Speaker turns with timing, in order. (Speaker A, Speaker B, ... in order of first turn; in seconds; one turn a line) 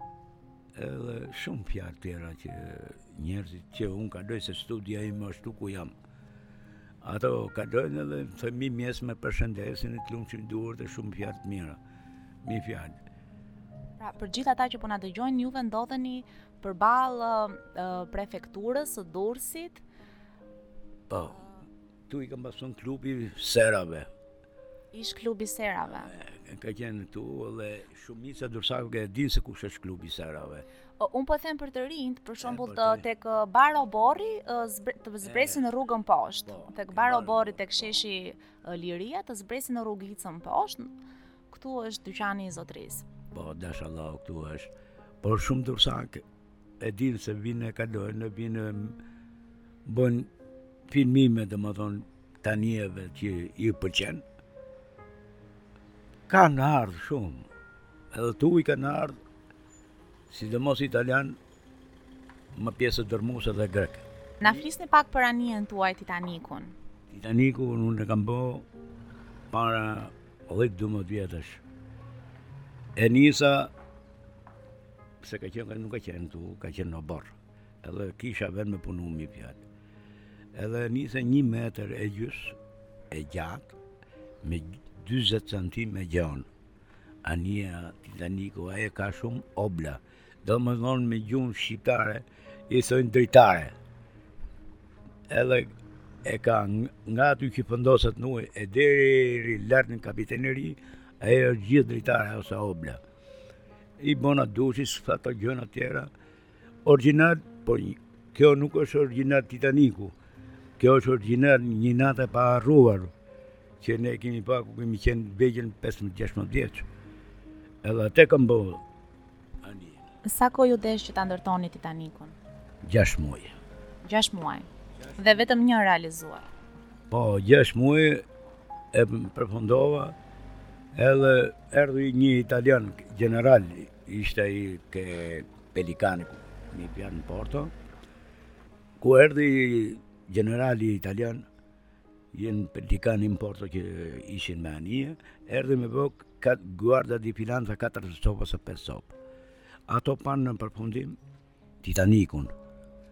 Speaker A: 0.8-5.9
Speaker A: 7.0-11.8
Speaker A: 12.4-13.0
Speaker B: 14.0-19.8
Speaker A: 21.1-24.1
Speaker B: 24.9-26.1
Speaker A: 25.8-30.7
Speaker B: 31.0-40.9
Speaker A: 32.4-33.1
Speaker A: 35.2-35.7
Speaker A: 36.4-38.0
Speaker B: 41.5-43.1
Speaker A: 43.3-46.2
Speaker A: 46.8-49.0
Speaker A: 49.9-50.3
Speaker A: 50.9-54.2
Speaker A: 56.3-57.5
Speaker A: 58.1-59.2
Speaker A: 60.3-61.4
Speaker A: 62.6-64.7
Speaker B: 64.4-66.7
Speaker A: 67.1-68.7
Speaker A: 69.5-71.6
Speaker A: 73.0-73.7
Speaker A: 75.2-79.6
Speaker A: 80.5-82.6
Speaker A: 83.1-83.8
Speaker A: 84.4-86.5
Speaker A: 87.2-93.8
Speaker A: 95.3-103.0
Speaker A: 104.0-106.1
Speaker A: 106.8-110.2
Speaker A: 110.8-113.1
Speaker A: 113.8-116.9
Speaker A: 117.8-118.8
Speaker A: 119.6-120.1
Speaker B: 120.2-122.4
Speaker A: 122.8-123.5
Speaker B: 124.0-124.7
Speaker A: 125.0-125.3
Speaker B: 125.2-126.5
Speaker A: 127.1-128.2
Speaker A: 128.9-130.2
Speaker A: 130.9-137.7
Speaker A: 139.0-141.4
Speaker A: 142.3-149.1
Speaker A: 149.9-151.2
Speaker A: 151.8-152.5